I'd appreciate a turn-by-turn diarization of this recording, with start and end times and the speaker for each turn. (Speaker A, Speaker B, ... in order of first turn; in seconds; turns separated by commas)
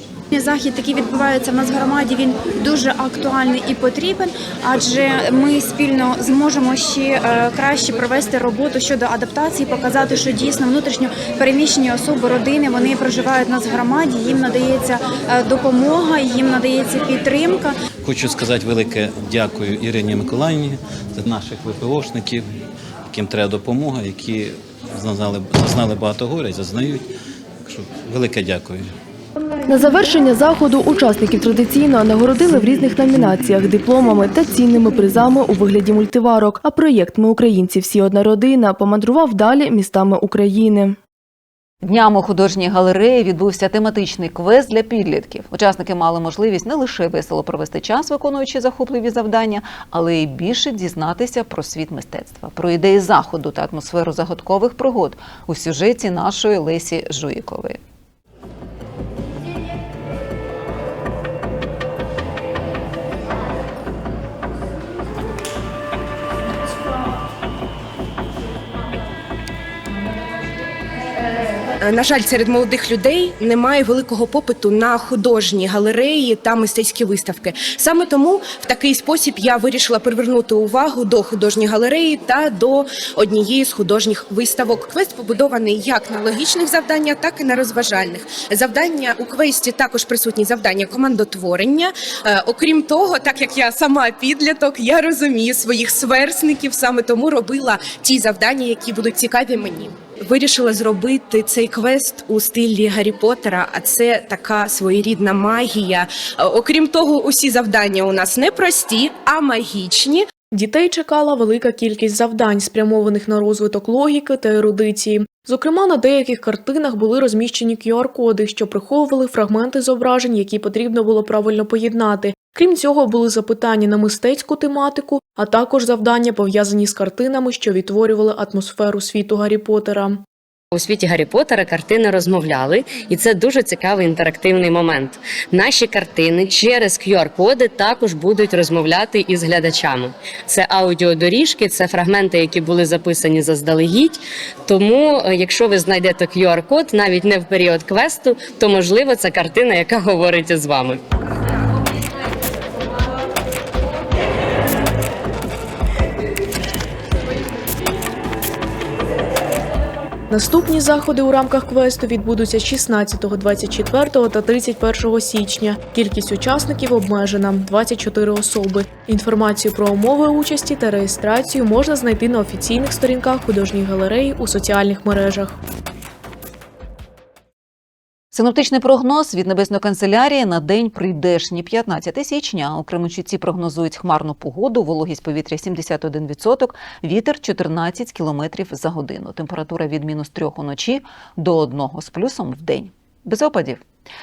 Speaker A: 0.3-17.8, Speaker B: 18.0-22.5, Speaker B: 23.1-27.0, Speaker B: 27.6-28.9, Speaker C: 29.7-41.0, Speaker D: 41.8-57.8, Speaker E: 71.8-110.3, Speaker F: 110.5-130.2, Speaker G: 130.7-151.0, Speaker F: 160.3-175.6, Speaker D: 178.3-193.8